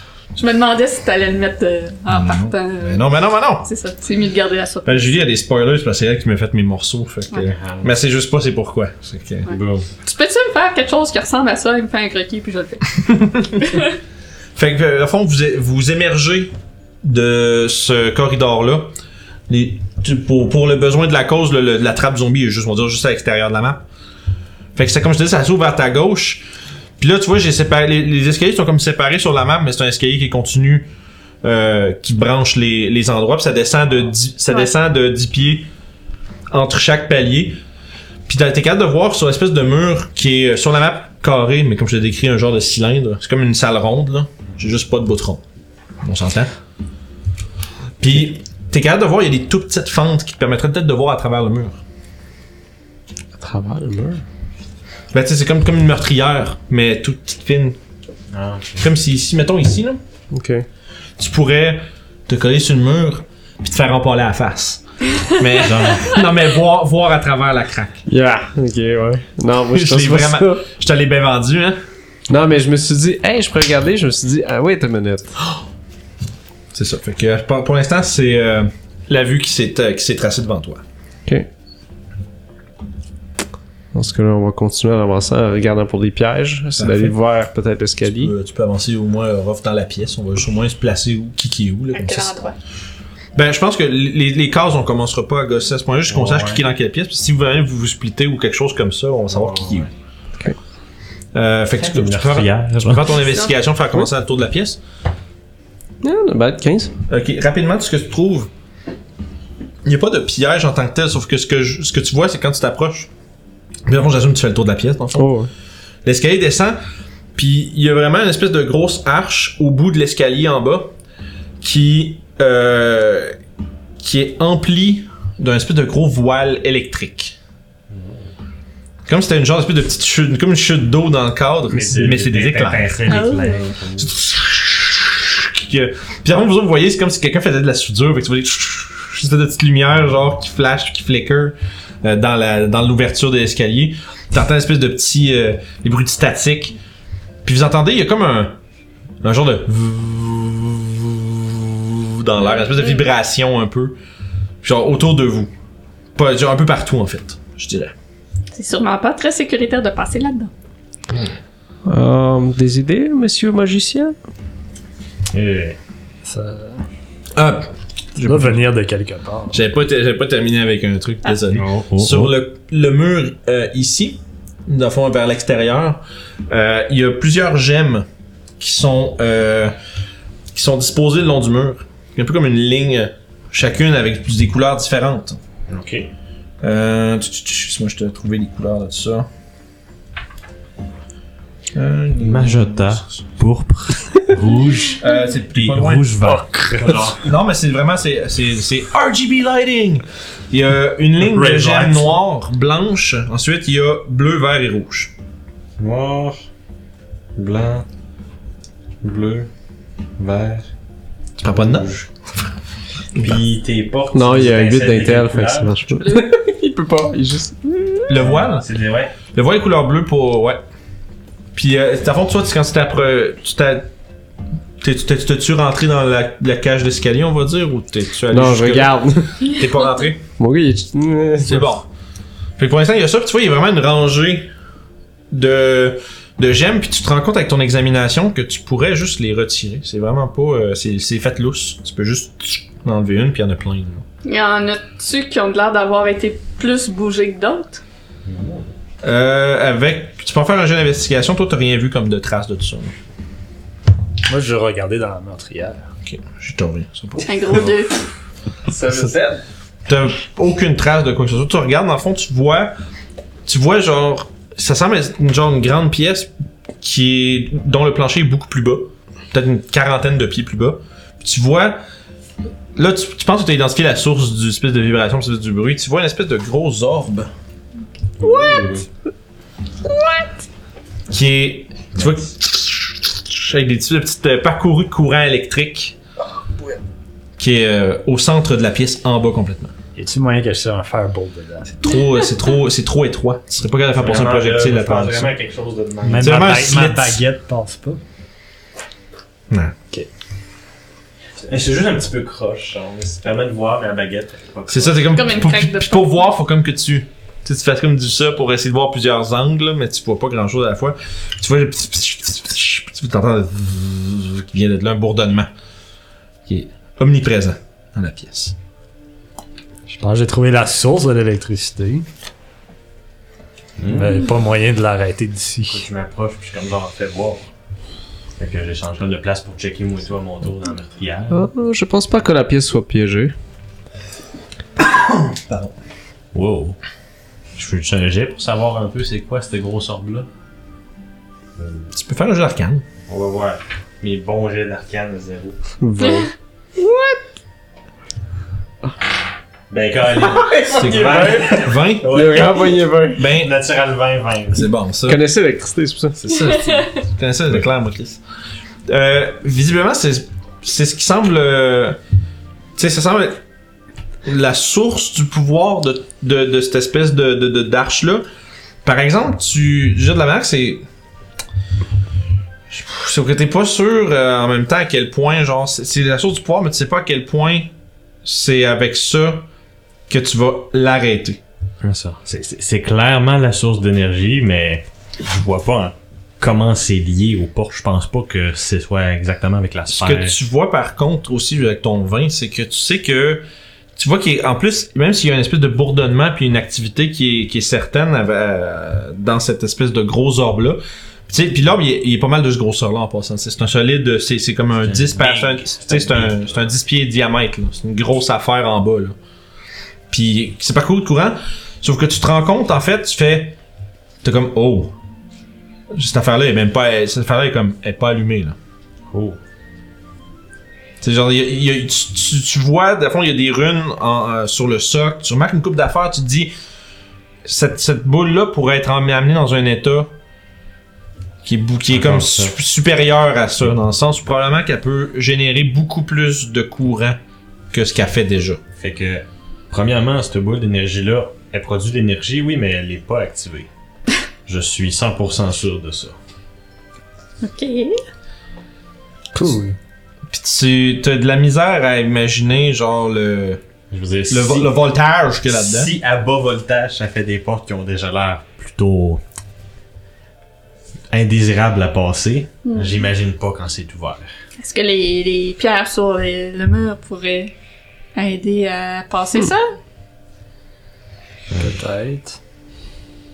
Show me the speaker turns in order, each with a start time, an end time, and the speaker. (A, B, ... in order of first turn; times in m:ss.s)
0:00.4-0:05.2 A
0:02.1-0:03.7 B
0:04.8-0:09.5 B
0:07.4-0:07.9 C
0:09.4-0:12.9 A
0:09.5-0:09.9 C
0:13.0-0:13.7 B
0:14.6-0:18.9 B
0:19.5-0:23.8 B
0:24.8-0:26.4 B
0:27.0-0:30.9 B
0:31.4-0:35.7 B
0:36.5-0:37.6 B
0:38.3-0:45.4 B
0:46.0-0:46.5 B
0:48.0-0:51.8 B
0:53.4-0:54.2 D
0:55.1-0:57.8 B
0:58.3-0:58.9 C
0:58.8-1:00.0 B
1:00.3-1:00.6 D
1:01.2-1:08.0 B
1:05.6-1:06.2 C
1:08.1-1:10.6 D
1:09.7-1:11.8 B
1:12.3-1:15.3 D
1:16.7-1:20.8 B
1:23.9-1:28.3 D
1:26.8-1:27.2 B
1:28.0-1:32.4 B
1:31.9-1:32.6 A
1:33.3-1:39.9 B
1:36.1-1:36.6 C
1:39.3-1:39.9 C
1:41.3-1:44.8 B
1:41.8-1:43.1 C
1:43.2-1:43.5 A
1:46.0-1:46.9 D
1:47.1-1:48.5 B
1:49.8-1:53.1 B
1:53.9-1:55.3 B
1:55.1-1:55.5 D
1:56.0-1:56.8 B
1:57.3-2:00.9 B
2:01.6-2:03.3 B
2:04.0-2:07.4 B
2:07.9-2:08.3 C
2:09.0-2:13.3 B
2:11.7-2:14.1 C
2:13.0-2:13.7 A
2:14.0-2:26.8 B
2:27.4-2:28.6 B
2:29.2-2:34.0 B
2:32.4-2:33.0 A
2:34.6-2:35.5 B
2:36.2-2:37.9 B
2:38.5-2:40.5 A
2:41.9-2:44.1 D
2:45.3-2:45.8 C
2:46.2-2:46.8 E
2:47.4-2:48.6 B
2:48.2-2:49.6 E
2:49.5-2:58.0 B
2:51.5-2:52.3 C
2:58.6-2:59.8 B
3:00.5-3:05.4 B
3:05.7-3:06.1 C
3:06.6-3:09.3 B
3:11.7-3:13.2 B
3:12.2-3:17.2 C
3:15.0-3:16.1 B
3:16.2-3:17.1 E
3:17.2-3:25.1 B
3:21.2-3:22.2 C
3:25.8-3:26.4 C
3:27.4-3:27.8 C
3:29.0-3:29.5 C
3:30.2-3:30.6 C
3:31.4-3:32.5 B
3:31.4-3:32.0 C
3:33.1-3:33.4 B
3:33.2-3:35.8 C
3:34.1-3:37.8 D
3:36.0-3:36.3 A
3:38.1-3:38.6 B
3:38.2-3:39.1 C
3:39.3-3:40.6 B
3:41.5-3:43.9 B
3:44.8-3:50.2 B
3:48.3-3:49.5 D
3:50.4-3:51.7 D
3:51.4-3:51.9 B
3:52.6-3:54.5 B
3:55.3-4:04.0 B
4:04.2-4:07.8 A
4:08.2-4:08.7 C
4:09.0-4:12.9 B
4:14.3-4:15.8 E
4:16.0-4:17.7 B
4:17.2-4:18.0 A
4:18.7-4:19.4 D
4:19.9-4:22.7 B
4:23.4-4:26.3 B
4:26.8-4:31.8 B
4:32.8-4:37.3 B
4:38.2-4:38.9 C
4:38.2-4:38.6 D
4:41.1-4:46.0 B
4:47.4-4:49.7 B
4:50.0-4:51.9 E
4:51.8-4:55.3 B
4:54.0-4:56.8 C
4:56.0-4:58.0 E
4:56.2-4:57.2 B
4:59.5-4:59.7 B
5:01.4-5:05.2 C
5:04.7-5:15.5 B
5:05.0-5:06.2 A
5:16.4-5:18.6 B
5:19.9-5:22.0 E
5:23.8-5:24.3 C
5:23.9-5:25.8 E
5:25.7-5:27.5 C
5:28.4-5:31.5 C
5:31.3-5:33.3 D
5:34.8-5:35.7 B
5:36.3-5:36.8 C
5:37.5-5:40.3 C
5:41.6-5:41.9 C
5:41.9-5:42.8 B
5:43.1-5:45.6 C
5:45.8-5:46.3 D
5:46.0-5:46.3 A
5:46.8-5:47.1 D
5:49.7-5:54.7 C
5:50.2-5:53.3 D
5:50.8-5:52.1 B
5:53.2-5:53.5 B
5:54.5-5:55.2 B
5:55.1-5:56.6 D
5:56.3-5:58.2 B
5:58.9-6:02.0 B
6:02.8-6:03.4 B
6:04.2-6:08.2 B
6:08.8-6:10.8 B
6:12.7-6:17.7 B
6:18.2-6:19.5 B
6:20.1-6:21.4 B
6:21.8-6:30.4 C
6:29.9-6:49.1 B
6:44.8-6:46.6 C
6:50.1-6:53.6 B
6:54.2-6:54.9 B
6:55.9-6:58.6 B
6:59.1-6:59.4 C
7:01.0-7:06.5 B
7:07.4-7:10.1 B
7:11.4-7:17.2 B
7:11.9-7:12.6 C
7:17.7-7:18.6 B
7:18.8-7:23.7 C
7:24.4-7:26.2 C
7:27.4-7:28.0 A
7:29.3-7:29.8 E
7:30.3-7:33.6 B
7:33.9-7:34.8 C
7:34.3-7:35.9 B
7:35.4-7:39.2 C
7:41.1-7:44.3 C
7:42.6-7:43.0 A
7:44.6-7:47.5 A
7:48.1-7:49.7 A
7:51.5-7:52.4 E